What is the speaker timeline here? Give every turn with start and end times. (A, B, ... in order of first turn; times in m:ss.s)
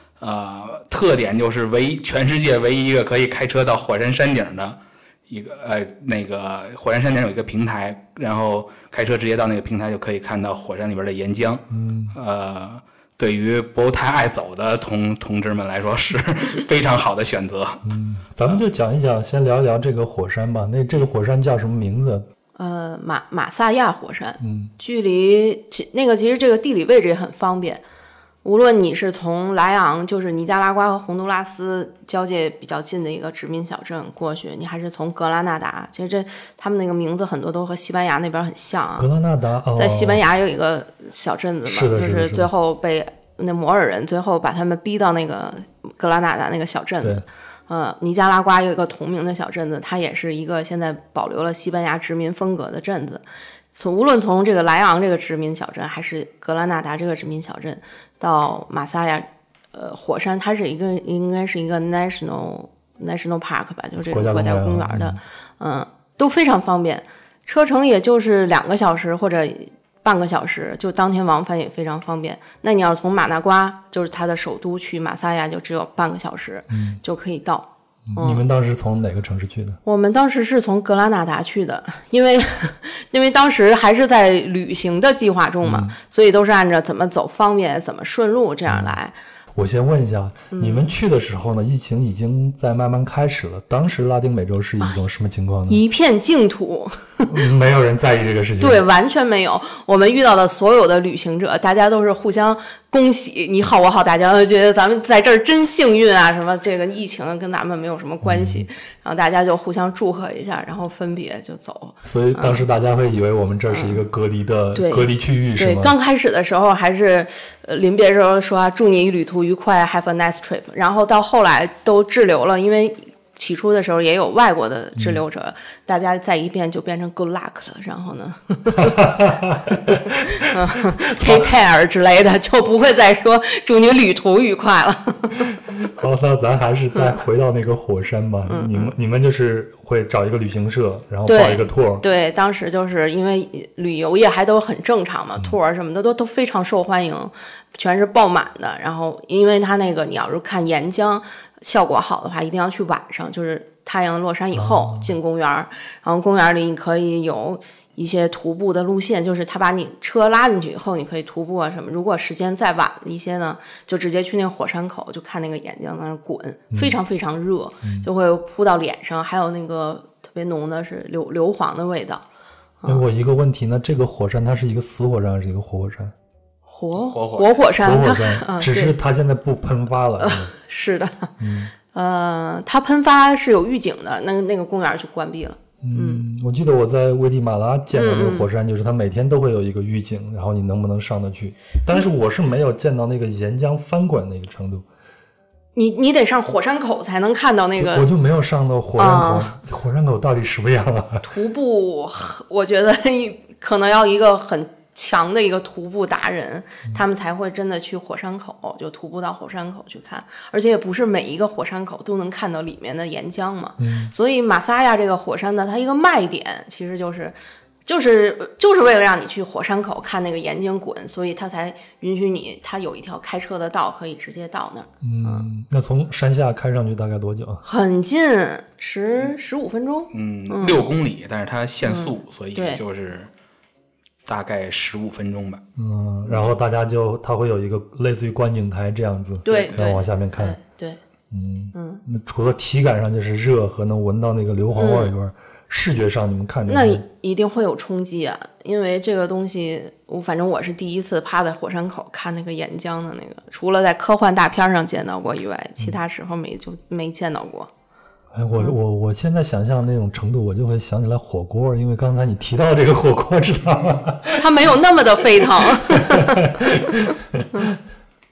0:00.2-0:17.8 A
0:11.7-0:12.2 B
0:17.8-0:22.3 B
0:22.6-0:27.8 C
0:24.4-0:24.7 B
0:28.4-0:39.1 C
0:39.0-0:40.2 B
0:39.7-1:18.4 C
0:41.7-0:42.5 B
1:04.1-1:05.2 B
1:16.7-1:17.0 B
1:18.1-1:19.8 B
1:19.8-1:29.2 C
1:25.6-1:26.0 B
1:28.7-1:28.9 B
1:29.6-1:35.8 B
1:30.5-1:30.9 C
1:35.7-1:37.3 C
1:37.3-1:38.8 B
1:38.6-1:52.6 C
1:48.2-1:48.7 B
1:52.0-1:55.9 B
1:53.7-1:54.0 C
1:54.8-2:09.0 C
2:08.8-2:10.2 B
2:10.4-2:15.6 C
2:11.2-2:11.5 B
2:15.8-2:22.0 B
2:18.5-2:18.9 C
2:21.3-2:52.2 C
2:34.6-2:35.1 B
2:46.7-2:47.0 B
2:52.9-2:56.1 B
2:56.7-2:59.0 C
2:57.1-2:57.6 A
2:57.8-3:00.5 B
3:00.2-3:01.3 C
3:01.4-3:01.7 B
3:01.9-3:06.2 C
3:05.8-3:14.9 B
3:07.9-3:08.5 C
3:15.8-3:18.1 C
3:17.8-3:21.3 B
3:19.0-3:19.5 C
3:21.2-3:45.5 C
3:33.8-3:34.1 B
3:45.0-3:47.6 B
3:47.6-3:50.8 C
3:50.1-3:53.3 A
3:51.8-3:52.8 C
3:54.3-3:55.6 A
3:55.8-4:00.6 B
3:59.4-4:01.0 C
3:59.5-3:59.8 A
4:01.3-4:07.0 B
4:01.7-4:02.0 C
4:04.8-4:05.1 C
4:06.7-4:17.7 C
4:18.3-4:24.5 B
4:24.4-4:26.5 C
4:25.7-4:27.8 B